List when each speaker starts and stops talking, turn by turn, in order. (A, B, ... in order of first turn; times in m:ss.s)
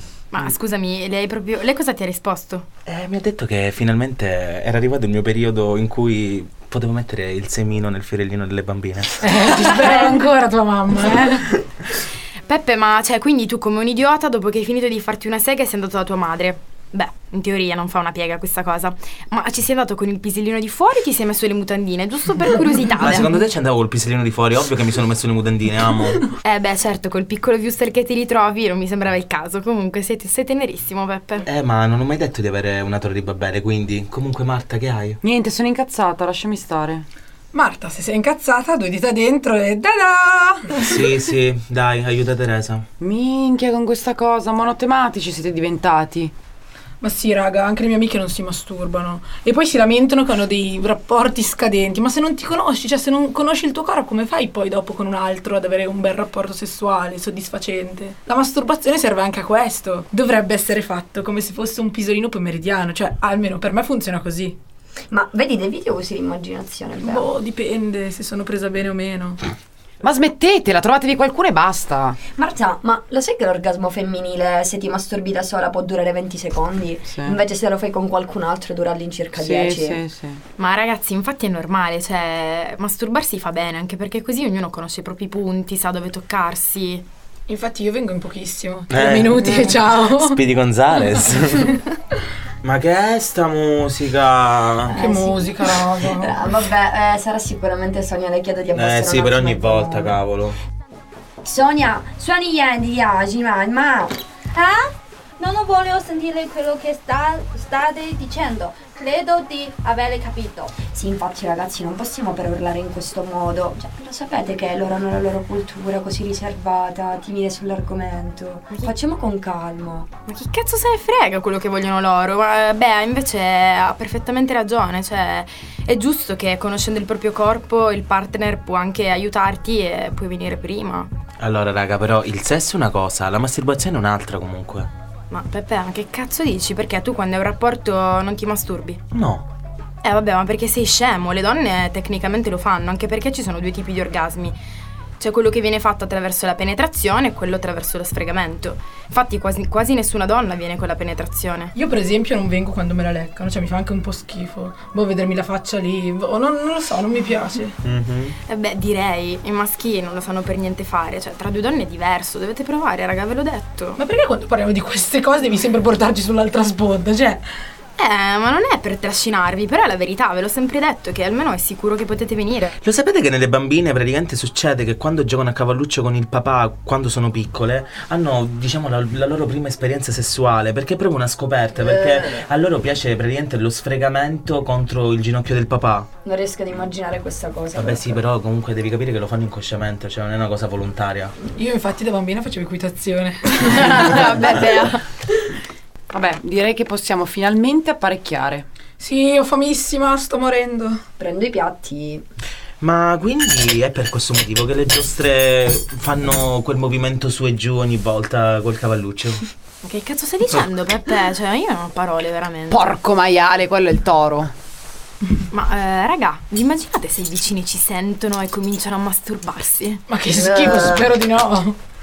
0:00.3-0:02.7 A
0:02.9-0:09.7 B
0:09.2-0:11.6 C
0:12.5-0:23.4 A
0:23.0-0:26.3 B
0:26.4-0:31.4 A
0:31.4-0:35.2 B
0:35.2-0:37.1 D
0:37.5-0:40.9 C
0:40.8-0:42.8 B
0:43.0-0:46.3 D
0:47.0-1:04.6 C
1:05.1-1:07.3 E
1:07.1-1:09.4 C
1:10.0-1:12.2 D
1:12.4-1:20.0 E
1:19.4-1:20.4 D
1:20.6-1:27.0 A
1:27.5-1:30.4 C
1:28.9-1:31.8 B
1:32.6-1:35.0 B
1:34.9-1:40.2 E
1:35.0-1:36.3 C
1:38.8-1:40.6 B
1:41.4-1:44.2 E
1:44.5-1:50.7 F
1:50.8-2:00.1 E
2:00.3-2:11.1 A
2:11.4-2:14.9 B
2:15.3-2:19.0 A
2:19.1-2:19.5 B
2:20.0-2:24.6 A
2:25.2-2:31.7 A
2:31.8-2:37.8 C
2:37.8-2:38.4 B
2:38.5-2:44.0 A
2:44.0-2:47.6 C
2:48.0-2:52.8 A
2:52.8-3:06.1 B
3:01.8-3:02.4 E
3:06.2-3:08.2 E
3:07.8-3:11.3 B
3:11.6-3:14.2 C
3:13.6-3:15.0 A
3:16.1-3:18.7 D
3:19.0-3:21.0 C
3:21.2-3:22.3 E
3:22.8-3:29.4 B
3:29.8-3:33.0 A
3:32.7-3:34.5 D
3:35.5-3:40.0 A
3:40.1-3:41.8 C
3:40.4-3:41.0 E